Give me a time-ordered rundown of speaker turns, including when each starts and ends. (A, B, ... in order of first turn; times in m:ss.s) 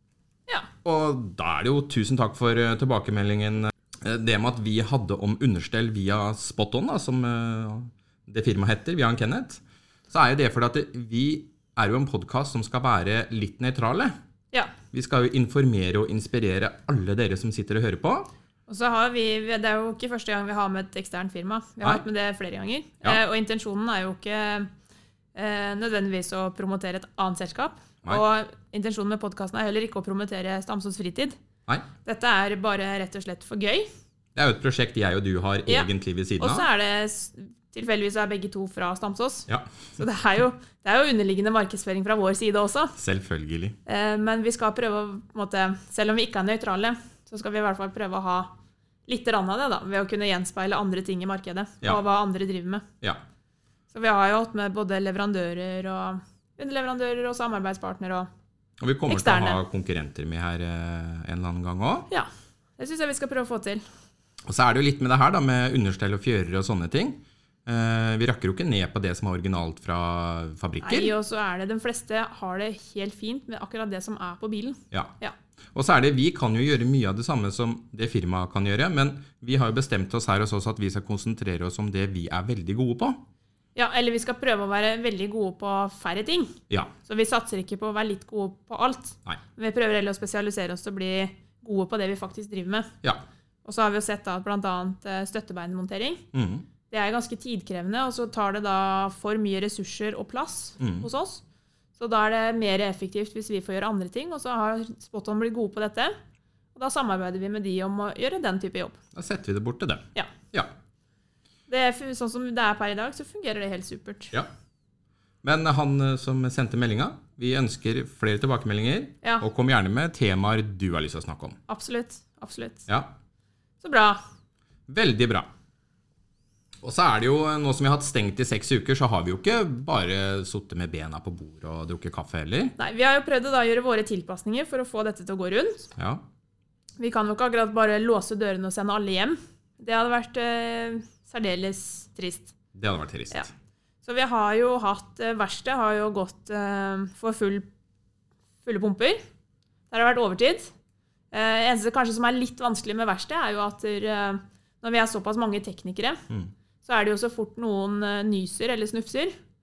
0:00.8-0:14.1 A
0:14.9-0:18.3 A
0:18.7-0:24.7 B
0:25.4-0:31.4 B
0:32.0-0:33.9 B
0:34.4-0:36.7 A
0:35.7-0:42.9 B
0:39.5-0:39.8 A
0:43.0-0:43.8 A
0:43.9-0:48.5 B
0:49.1-0:52.8 B
0:53.9-0:58.3 B
0:58.8-1:02.1 A
0:59.1-0:59.6 B
1:02.1-1:03.8 B
1:04.5-1:11.1 A
1:10.8-1:15.4 B
1:15.7-1:23.2 A
1:23.8-1:32.9 B
1:33.6-1:36.2 B
1:36.3-1:36.7 A
1:36.9-1:41.4 B
1:40.8-1:41.1 A
1:42.0-1:46.2 B
1:46.8-1:49.0 B
1:49.1-1:50.7 A
1:51.7-1:54.3 B
1:55.4-2:01.6 A
2:01.7-2:02.9 B
2:03.8-2:04.2 B
2:04.9-2:05.5 A
2:06.8-2:12.8 A
2:12.8-2:15.9 B
2:16.0-2:16.2 A
2:17.0-2:22.5 B
2:22.8-2:23.5 A
2:24.0-2:27.7 B
2:28.6-2:29.2 B
2:29.9-2:30.7 B
2:31.3-2:36.2 B
2:36.8-2:39.3 B